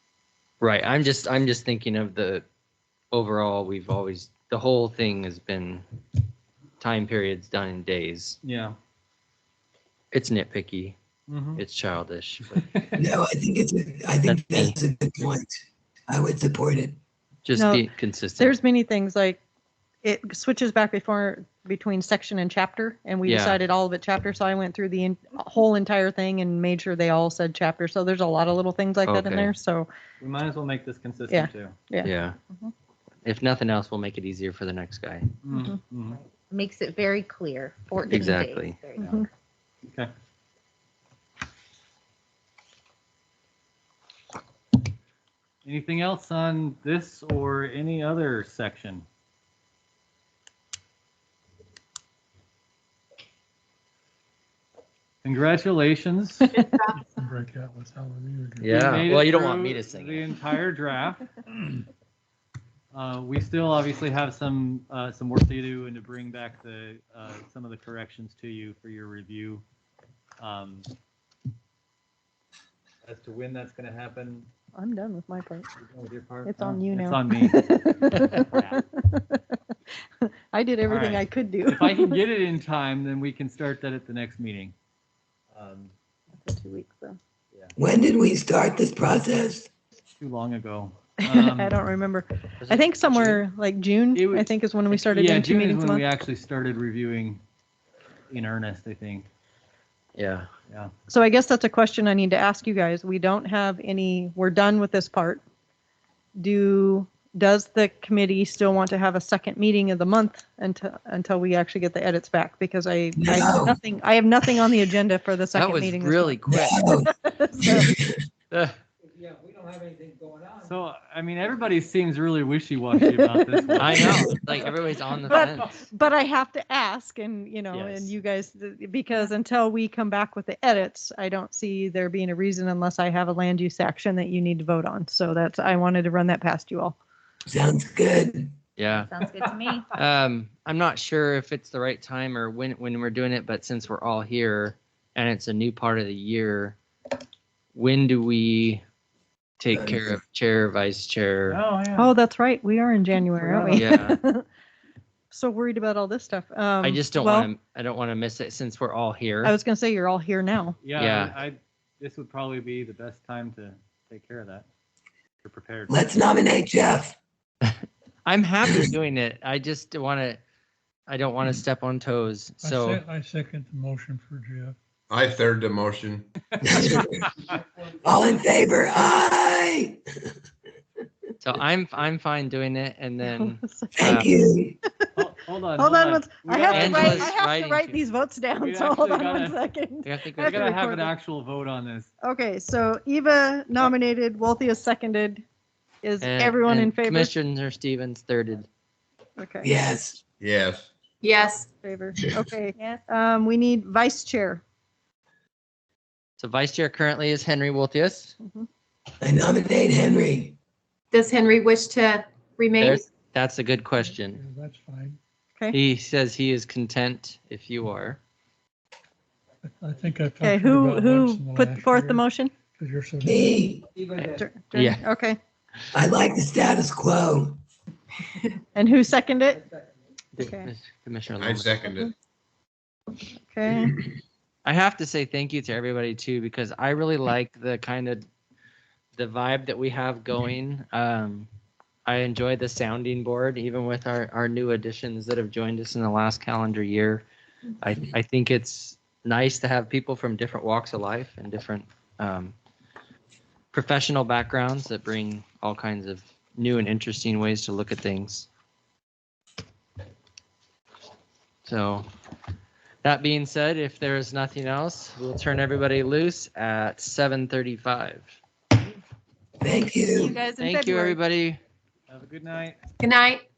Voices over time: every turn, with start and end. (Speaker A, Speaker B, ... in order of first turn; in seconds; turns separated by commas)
Speaker A: 0.6-2.4, Speaker A: 3.1-5.8, Speaker A: 6.8-8.4, Speaker B: 8.4-8.8, Speaker A: 10.1-10.9, Speaker B: 11.3-11.6, Speaker A: 11.5-12.7, Speaker B: 12.5-13.0, Speaker C: 12.9-17.0, Speaker A: 14.2-14.8, Speaker A: 17.4-18.6, Speaker D: 17.6-17.9, Speaker D: 18.4-19.4, Speaker D: 20.0-29.9, Speaker A: 23.2-23.6, Speaker A: 29.0-29.5, Speaker B: 30.2-31.8, Speaker D: 31.3-32.1, Speaker A: 32.0-32.4, Speaker A: 33.2-35.3, Speaker B: 35.4-36.2, Speaker E: 36.1-39.2, Speaker A: 38.1-38.8, Speaker D: 39.0-39.2, Speaker B: 39.8-40.1, Speaker B: 45.6-49.0, Speaker B: 55.2-56.5, Speaker F: 56.9-58.9, Speaker A: 58.6-60.3, Speaker B: 58.6-61.3, Speaker B: 62.9-69.6, Speaker B: 70.4-70.9, Speaker B: 73.0-74.5, Speaker D: 74.7-75.7, Speaker B: 75.8-78.8, Speaker D: 76.4-79.5, Speaker D: 80.2-82.2, Speaker B: 80.9-84.7, Speaker B: 85.5-85.9, Speaker D: 86.4-87.2, Speaker C: 87.8-89.7, Speaker B: 90.2-91.8, Speaker D: 91.2-96.0, Speaker A: 92.6-93.4, Speaker B: 94.1-97.4, Speaker B: 98.3-99.2, Speaker A: 100.2-100.5, Speaker D: 101.1-105.4, Speaker D: 106.4-116.4, Speaker C: 113.2-113.8, Speaker A: 115.5-117.1, Speaker C: 116.5-118.2, Speaker D: 117.1-117.9, Speaker B: 120.6-124.3, Speaker D: 123.1-123.8, Speaker A: 123.8-125.8, Speaker D: 125.3-136.9, Speaker A: 127.7-128.1, Speaker C: 137.5-138.5, Speaker A: 138.8-139.2, Speaker E: 139.0-139.9, Speaker A: 139.9-146.8, Speaker A: 147.7-148.8, Speaker A: 149.6-151.6, Speaker C: 149.7-150.1, Speaker B: 151.5-152.1, Speaker D: 151.9-154.4, Speaker B: 153.3-153.8, Speaker A: 153.7-154.2, Speaker D: 155.3-157.5, Speaker A: 156.8-159.5, Speaker D: 159.4-160.8, Speaker B: 160.8-164.7, Speaker A: 160.9-161.4, Speaker B: 165.4-166.1, Speaker C: 165.9-167.2, Speaker A: 167.7-170.4, Speaker A: 171.1-173.0, Speaker F: 172.6-174.8, Speaker G: 175.1-176.3, Speaker C: 176.6-177.3, Speaker C: 178.0-180.0, Speaker A: 181.4-184.3, Speaker D: 183.2-184.2, Speaker C: 183.9-184.8, Speaker B: 185.1-187.3, Speaker D: 185.8-191.1, Speaker A: 186.7-188.0, Speaker B: 188.6-189.6, Speaker A: 190.0-190.7, Speaker B: 190.4-192.1, Speaker D: 192.2-195.4, Speaker D: 196.0-197.3, Speaker A: 196.2-198.7, Speaker D: 199.4-199.7, Speaker C: 199.6-200.2, Speaker G: 200.4-200.9, Speaker H: 201.2-201.7, Speaker D: 201.7-204.6, Speaker A: 206.4-208.3, Speaker D: 208.4-208.7, Speaker C: 209.2-210.6, Speaker H: 211.1-213.1, Speaker A: 212.8-214.4, Speaker F: 214.3-215.2, Speaker A: 215.7-218.2, Speaker F: 219.6-223.5, Speaker D: 220.4-222.5, Speaker C: 223.2-223.8, Speaker A: 224.2-225.0, Speaker D: 224.2-225.4, Speaker C: 225.9-227.6, Speaker D: 228.7-229.6, Speaker A: 230.3-231.9, Speaker D: 230.4-230.7, Speaker G: 231.4-232.1, Speaker D: 233.3-234.0, Speaker A: 234.6-238.2, Speaker A: 239.2-241.5, Speaker A: 242.1-247.2, Speaker A: 247.8-252.5, Speaker A: 253.7-258.5, Speaker A: 261.6-262.1, Speaker A: 263.0-268.4, Speaker C: 269.6-270.4, Speaker H: 270.1-270.8, Speaker A: 270.6-271.6, Speaker B: 272.1-272.8, Speaker H: 273.0-273.4